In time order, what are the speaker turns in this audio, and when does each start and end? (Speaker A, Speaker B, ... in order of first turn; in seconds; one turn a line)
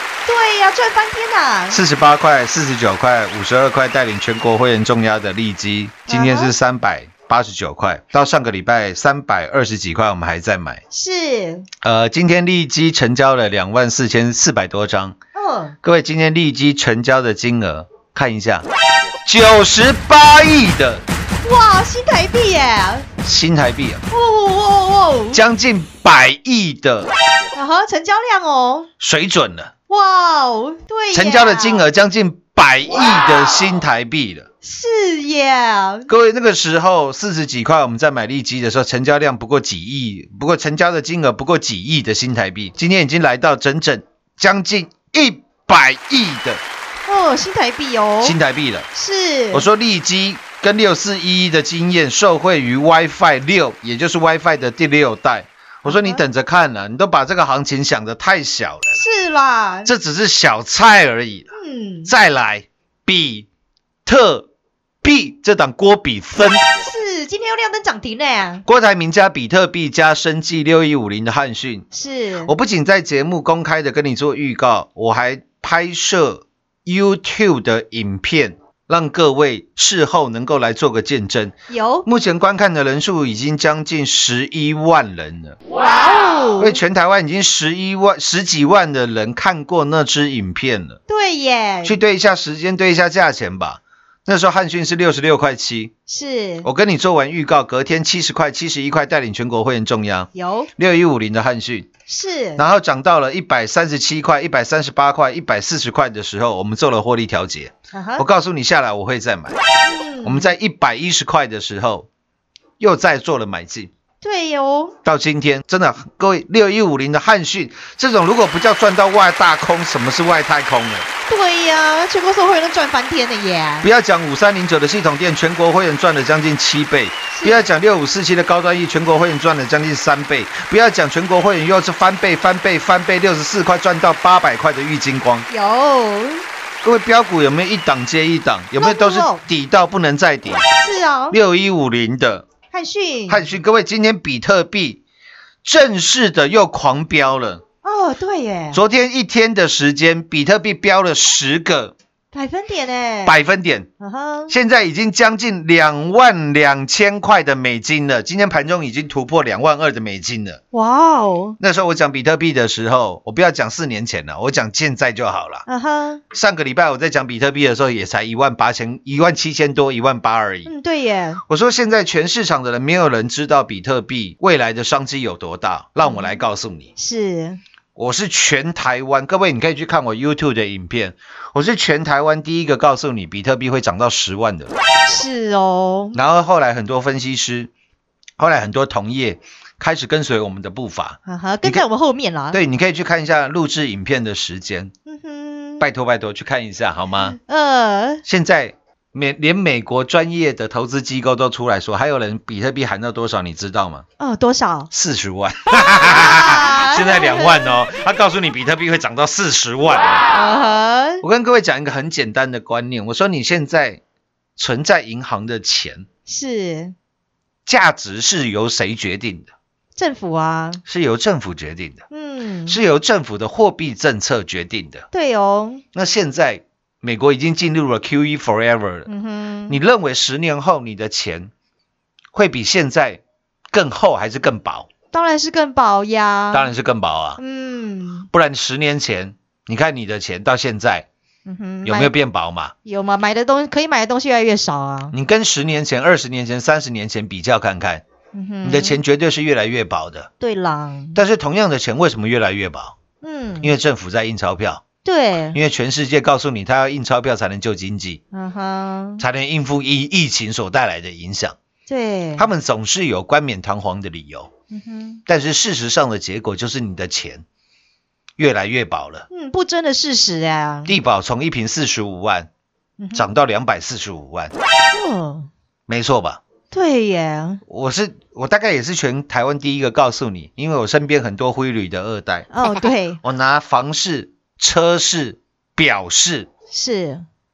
Speaker A: 0.2-1.8
Speaker B: 1.7-10.8
Speaker A: 6.1-6.5
Speaker A: 10.9-11.7
Speaker B: 11.8-15.2
Speaker A: 15.3-15.7
Speaker B: 15.8-18.7
Speaker B: 19.2-21.0
Speaker A: 21.4-23.1
Speaker B: 23.2-24.0
Speaker A: 24.1-25.4
Speaker B: 25.3-27.1
Speaker A: 27.5-28.9
Speaker B: 29.0-29.7
Speaker A: 29.9-31.8
Speaker B: 31.1-34.5
Speaker A: 34.6-36.1
Speaker B: 36.1-46.6
Speaker A: 47.1-48.4
Speaker B: 48.2-48.9
Speaker A: 48.9-49.6
Speaker B: 49.5-59.0
Speaker A: 55.8-56.2
Speaker A: 58.9-59.9
Speaker B: 59.8-61.5
Speaker A: 61.5-62.1
Speaker B: 62.0-63.5
Speaker B: 64.0-64.5
Speaker B: 65.0-66.7
Speaker A: 66.8-68.6
Speaker B: 68.7-71.8
Speaker A: 71.9-72.5
Speaker B: 72.4-85.6
Speaker A: 81.7-82.1
Speaker A: 85.8-86.8
Speaker B: 86.6-91.0
Speaker A: 91.1-92.0
Speaker B: 91.8-95.9
Speaker A: 96.1-96.7
Speaker B: 96.6-101.9
Speaker A: 100.3-100.7
Speaker A: 102.1-102.6
Speaker B: 102.5-109.6
Speaker A: 107.9-108.2
Speaker A: 109.8-110.5
Speaker B: 110.2-112.1
Speaker B: 112.8-113.9
Speaker A: 114.2-114.9
Speaker B: 115.0-121.1
Speaker A: 121.3-123.9
Speaker B: 123.8-135.5
Speaker A: 127.3-127.6
Speaker A: 135.5-136.4
Speaker B: 136.8-140.6
Speaker A: 138.8-139.4
Speaker A: 140.8-141.3
Speaker B: 141.3-142.5
Speaker A: 142.7-143.5
Speaker B: 143.3-145.0
Speaker B: 145.6-147.6
Speaker A: 147.8-148.8
Speaker B: 148.7-151.9
Speaker A: 152.3-153.4
Speaker B: 153.2-153.9
Speaker A: 154.0-154.5
Speaker B: 154.5-160.6
Speaker A: 160.7-161.6
Speaker B: 161.6-165.6
Speaker A: 165.7-166.2
Speaker B: 166.3-170.7
Speaker A: 170.6-171.4
Speaker B: 171.5-176.9
Speaker A: 176.0-176.4
Speaker A: 177.0-177.6
Speaker B: 177.9-184.8
Speaker A: 185.1-186.2
Speaker B: 186.1-187.7
Speaker B: 188.4-191.8
Speaker A: 191.2-192.6
Speaker B: 192.5-194.9
Speaker A: 195.1-195.8
Speaker B: 195.8-197.3
Speaker A: 197.4-198.2
Speaker B: 198.2-204.0
Speaker A: 204.2-204.9
Speaker B: 204.9-210.2
Speaker A: 205.7-207.9
Speaker A: 210.3-211.2
Speaker B: 211.2-214.0
Speaker B: 214.6-216.1
Speaker A: 216.3-216.9
Speaker B: 217.7-219.5
Speaker A: 219.9-220.8
Speaker B: 220.8-222.0
Speaker A: 222.1-222.8
Speaker B: 222.7-225.1
Speaker A: 225.1-225.8
Speaker B: 225.9-229.1
Speaker A: 229.1-229.8
Speaker B: 229.7-231.5
Speaker B: 232.3-234.9
Speaker A: 235.1-236.7
Speaker B: 236.5-237.4
Speaker A: 237.4-238.3
Speaker B: 238.3-241.1
Speaker A: 241.4-242.1
Speaker B: 241.8-242.7
Speaker A: 242.8-245.1
Speaker B: 245.1-248.0
Speaker A: 248.3-249.0
Speaker B: 248.6-250.3
Speaker A: 250.4-251.2
Speaker B: 251.1-252.9
Speaker A: 253.2-253.7
Speaker B: 253.6-254.8
Speaker A: 255.0-255.6
Speaker B: 255.5-258.2
Speaker A: 258.3-259.2
Speaker B: 259.2-261.6
Speaker A: 261.9-262.4
Speaker B: 262.4-264.5
Speaker A: 264.7-265.2
Speaker B: 265.3-267.4
Speaker B: 268.4-269.3
Speaker A: 269.3-270.9
Speaker B: 270.9-272.5
Speaker A: 273.0-273.2
Speaker B: 273.1-274.5
Speaker A: 274.9-275.5
Speaker B: 275.9-276.4
Speaker A: 276.7-277.6
Speaker B: 277.7-282.5
Speaker A: 282.5-283.2
Speaker B: 283.2-286.5
Speaker A: 286.7-287.2